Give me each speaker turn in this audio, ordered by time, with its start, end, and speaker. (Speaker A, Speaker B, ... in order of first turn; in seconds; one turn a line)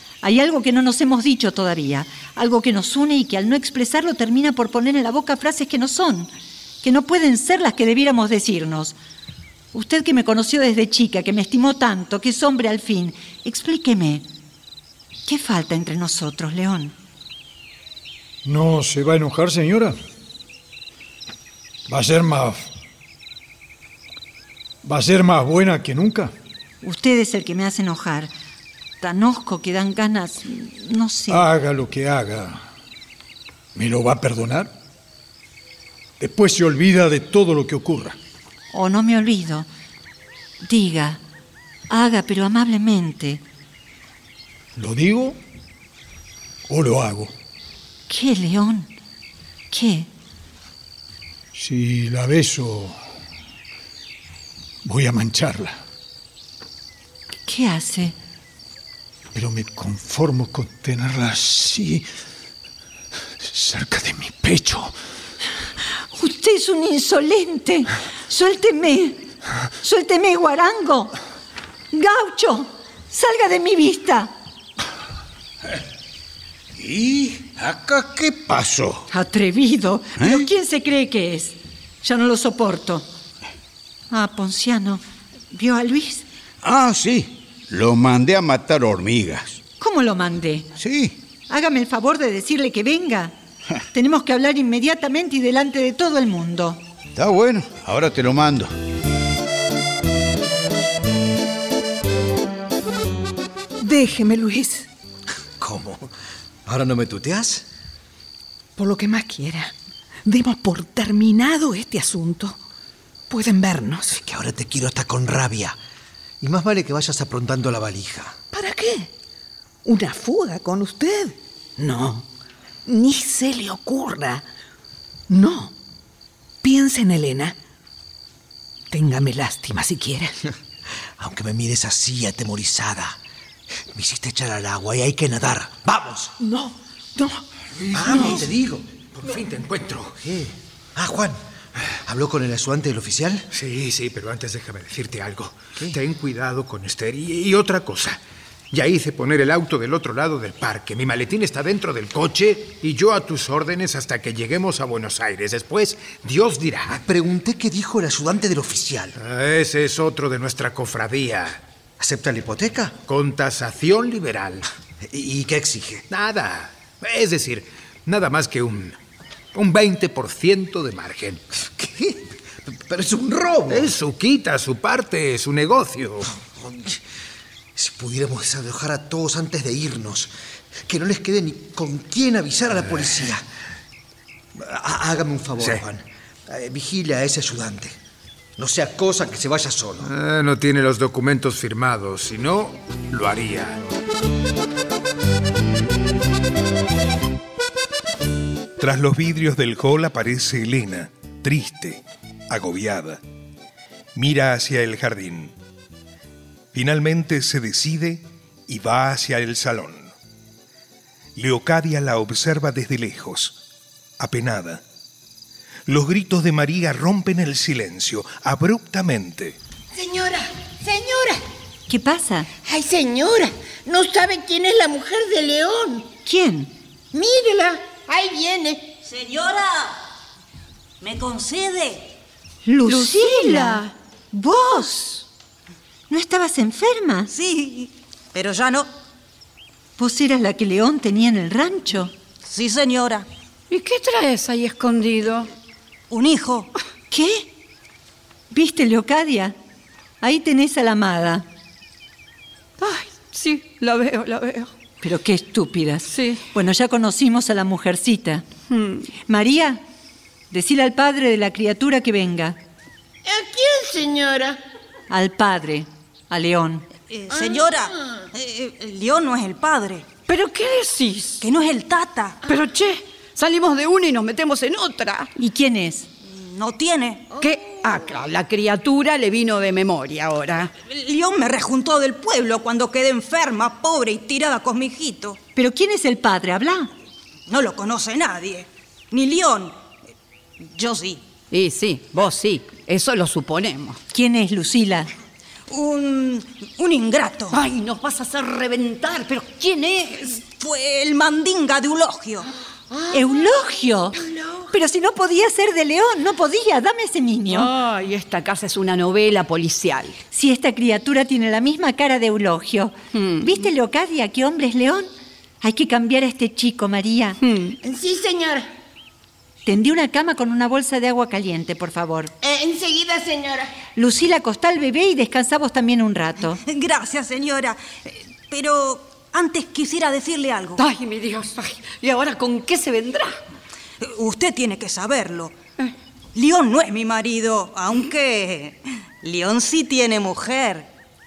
Speaker A: 0.2-6.3
Speaker A: 6.8-8.9
Speaker A: 9.7-14.2
Speaker A: 15.2-16.9
Speaker B: 18.4-19.9
Speaker B: 21.9-22.7
Speaker B: 24.8-26.3
Speaker A: 26.8-28.3
Speaker A: 29.0-31.4
Speaker B: 31.3-32.6
Speaker B: 33.7-34.7
Speaker B: 36.2-38.1
Speaker A: 38.7-39.7
Speaker A: 40.6-41.2
Speaker A: 41.9-43.4
Speaker B: 44.8-45.4
Speaker B: 46.7-47.3
Speaker A: 48.1-48.9
Speaker A: 49.7-50.1
Speaker B: 51.5-53.0
Speaker B: 54.8-55.8
Speaker A: 57.5-58.1
Speaker B: 59.3-62.0
Speaker B: 63.4-64.9
Speaker A: 66.1-69.2
Speaker A: 69.8-71.2
Speaker A: 71.9-74.3
Speaker C: 76.8-79.1
Speaker A: 79.1-83.1
Speaker C: 80.2-80.5
Speaker A: 84.1-86.2
Speaker C: 86.6-89.6
Speaker A: 89.8-90.7
Speaker C: 90.8-91.2
Speaker A: 91.5-93.3
Speaker A: 93.9-96.8
Speaker C: 97.2-98.7
Speaker D: 103.8-104.9
Speaker E: 105.6-106.1
Speaker E: 106.7-107.7
Speaker D: 108.8-109.7
Speaker D: 110.2-112.6
Speaker D: 113.3-114.1
Speaker E: 114.1-115.8
Speaker E: 116.4-118.3
Speaker D: 118.5-119.1
Speaker D: 119.8-122.2
Speaker D: 122.8-124.5
Speaker D: 125.3-125.7
Speaker D: 126.6-127.5
Speaker D: 128.9-130.3
Speaker E: 131.2-133.2
Speaker E: 133.9-136.3
Speaker D: 136.4-137.4
Speaker E: 137.9-138.8
Speaker D: 138.1-138.4
Speaker F: 139.2-140.0
Speaker E: 140.2-141.4
Speaker E: 142.1-143.4
Speaker F: 143.5-148.2
Speaker F: 148.7-157.0
Speaker E: 156.9-159.1
Speaker F: 159.2-161.6
Speaker E: 162.0-163.0
Speaker F: 163.0-164.6
Speaker E: 165.1-166.0
Speaker F: 166.1-168.9
Speaker F: 169.5-171.4
Speaker E: 171.8-172.3
Speaker E: 172.8-173.9
Speaker F: 173.7-176.3
Speaker E: 176.4-177.0
Speaker E: 177.8-180.3
Speaker E: 180.9-183.4
Speaker E: 184.6-187.9
Speaker E: 188.6-190.1
Speaker F: 190.0-193.8
Speaker G: 198.8-203.2
Speaker G: 204.1-205.5
Speaker G: 206.7-210.1
Speaker G: 211.3-213.6
Speaker G: 214.2-214.8
Speaker G: 215.9-219.6
Speaker H: 219.9-221.4
Speaker A: 221.9-222.5
Speaker H: 222.6-226.1
Speaker A: 226.2-226.7
Speaker H: 227.1-228.9
Speaker I: 229.0-230.0
Speaker I: 231.0-232.1
Speaker A: 232.6-235.2
Speaker J: 232.9-233.9
Speaker A: 236.1-237.3
Speaker I: 237.3-238.9
Speaker A: 240.0-242.1
Speaker I: 242.4-243.3
Speaker J: 243.7-245.5
Speaker I: 246.1-246.7
Speaker A: 247.1-247.5
Speaker A: 248.5-249.5
Speaker A: 250.2-251.4
Speaker J: 252.8-254.7
Speaker A: 255.0-258.4
Speaker J: 256.1-256.4
Speaker J: 258.7-259.1
Speaker A: 259.2-259.8
Speaker A: 260.5-262.6
Speaker H: 263.2-264.6
Speaker A: 265.1-266.9
Speaker I: 267.1-270.1
Speaker H: 267.3-268.3
Speaker J: 270.3-271.4
Speaker I: 271.4-272.4
Speaker J: 272.4-275.3
Speaker A: 275.4-276.1
Speaker I: 276.2-277.3
Speaker J: 277.4-280.7
Speaker I: 280.9-285.4
Speaker A: 285.6-286.9
Speaker I: 287.5-289.7
Speaker I: 290.6-291.2
Speaker J: 291.5-294.0
Speaker A: 294.1-295.1
Speaker I: 295.7-297.6
Speaker J: 297.5-300.4
Speaker I: 300.4-302.5
Speaker H: 302.9-303.3
Speaker A: 303.1-304.2
Speaker H: 304.2-304.7
Speaker A: 304.7-307.7
Speaker J: 307.5-310.2
Speaker A: 310.3-315.1
Speaker J: 313.1-313.5
Speaker A: 315.6-317.4
Speaker J: 317.4-317.8
Speaker H: 317.8-318.7
Speaker A: 319.6-322.3
Speaker H: 322.4-323.7
Speaker A: 323.9-326.6
Speaker I: 326.6-330.8
Speaker J: 330.8-333.4
Speaker I: 334.0-335.6
Speaker I: 336.3-340.9